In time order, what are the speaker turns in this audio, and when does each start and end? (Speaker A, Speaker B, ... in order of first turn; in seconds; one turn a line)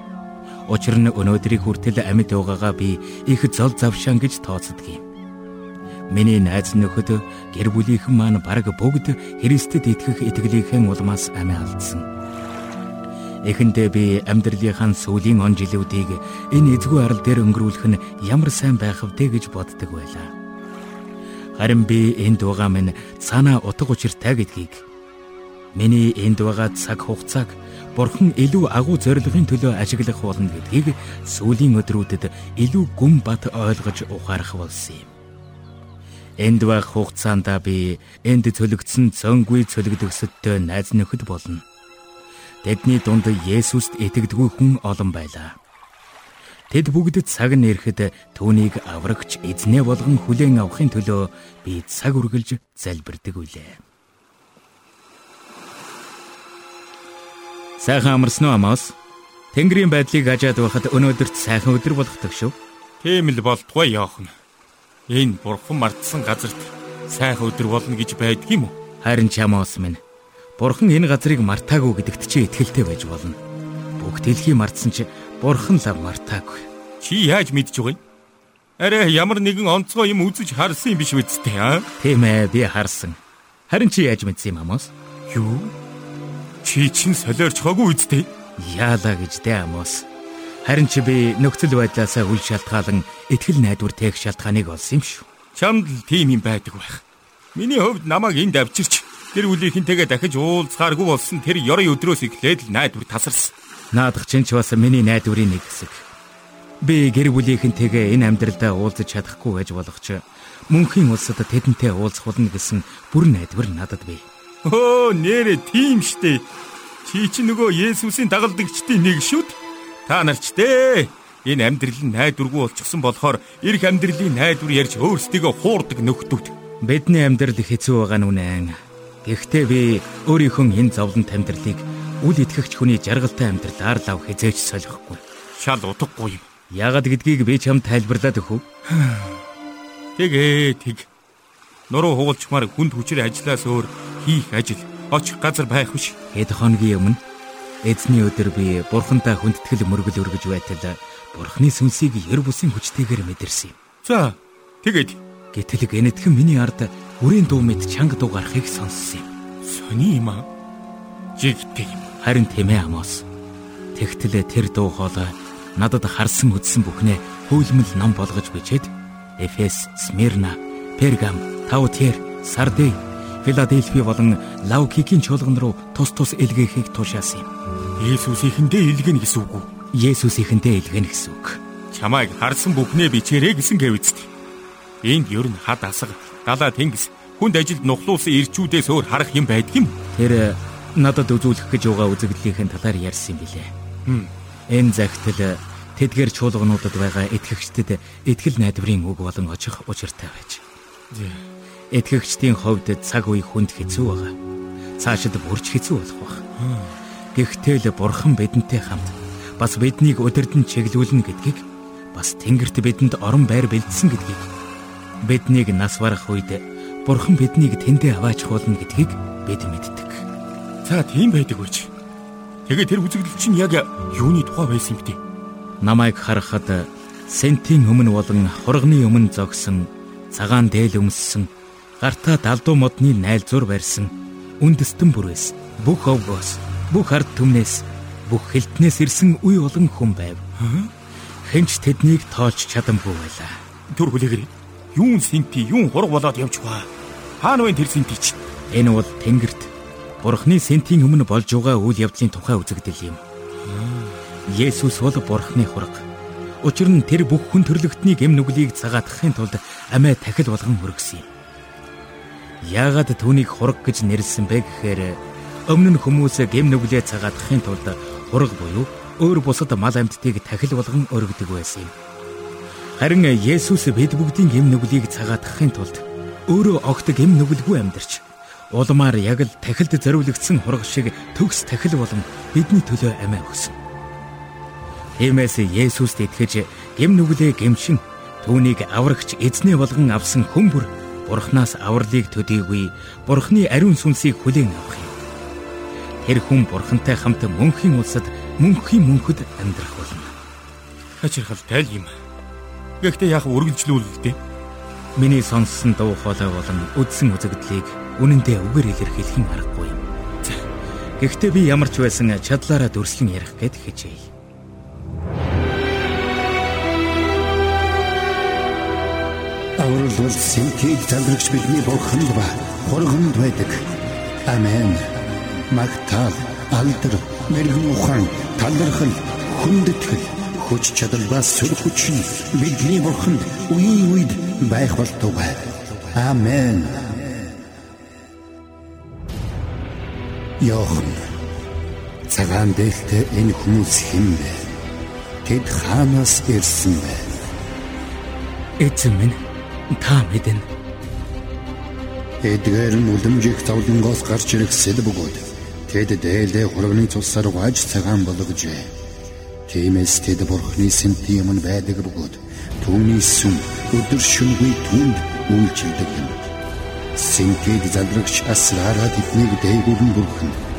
Speaker A: 0.7-5.0
Speaker A: 6.1-12.1
Speaker A: 13.4-20.3
Speaker A: 21.6-24.8
Speaker A: 25.7-35.1
Speaker A: 36.4-41.6
Speaker A: 42.6-45.5
Speaker A: 46.7-53.8
Speaker A: 57.8-58.9
Speaker A: 59.5-62.5
Speaker B: 63.0-64.3
Speaker B: 65.1-68.7
Speaker A: 69.0-70.0
Speaker A: 70.6-73.4
Speaker A: 74.0-76.7
Speaker B: 77.0-78.0
Speaker B: 78.8-81.9
Speaker A: 82.0-83.2
Speaker A: 83.7-84.9
Speaker B: 85.3-85.7
Speaker B: 86.6-88.3
Speaker A: 88.6-90.0
Speaker A: 90.6-95.3
Speaker B: 95.5-97.0
Speaker B: 97.5-103.5
Speaker A: 103.9-106.0
Speaker A: 106.8-114.2
Speaker B: 114.6-116.4
Speaker B: 117.0-126.5
Speaker A: 126.8-135.2
Speaker B: 135.6-136.5
Speaker A: 136.7-138.6
Speaker B: 138.9-139.3
Speaker B: 140.2-141.1
Speaker B: 141.9-146.2
Speaker A: 146.3-147.2
Speaker A: 147.8-153.7
Speaker B: 154.0-155.2
Speaker A: 155.5-159.3
Speaker B: 159.6-160.4
Speaker B: 161.4-162.1
Speaker A: 162.2-163.2
Speaker A: 163.9-177.5
Speaker B: 178.0-179.7
Speaker A: 179.9-181.6
Speaker B: 181.9-184.3
Speaker B: 185.0-190.0
Speaker A: 190.1-193.7
Speaker B: 194.1-194.3
Speaker A: 194.7-200.6
Speaker B: 201.1-201.4
Speaker A: 201.9-204.3
Speaker A: 205.0-206.4
Speaker B: 206.6-206.9
Speaker A: 207.3-214.5
Speaker A: 215.2-220.2
Speaker B: 220.8-221.9
Speaker B: 222.7-225.2
Speaker A: 225.8-231.5
Speaker A: 232.0-240.4
Speaker B: 240.6-240.9
Speaker A: 241.4-243.6
Speaker B: 243.9-246.9
Speaker B: 247.4-248.4
Speaker A: 248.7-249.7
Speaker A: 250.2-253.2
Speaker B: 253.6-254.2
Speaker A: 254.5-256.0
Speaker A: 256.6-261.2
Speaker A: 262.6-271.9
Speaker A: 273.0-283.8
Speaker A: 285.2-295.1
Speaker A: 296.2-300.3
Speaker B: 301.2-302.1
Speaker B: 303.0-304.4
Speaker A: 305.1-310.0
Speaker A: 311.2-314.3
Speaker C: 319.8-323.9
Speaker C: 324.4-337.5
Speaker C: 340.6-341.3
Speaker C: 342.3-344.7
Speaker C: 345.4-347.4
Speaker A: 348.8-349.4
Speaker A: 349.9-350.6
Speaker C: 352.4-358.9
Speaker C: 359.7-366.5
Speaker C: 367.1-370.6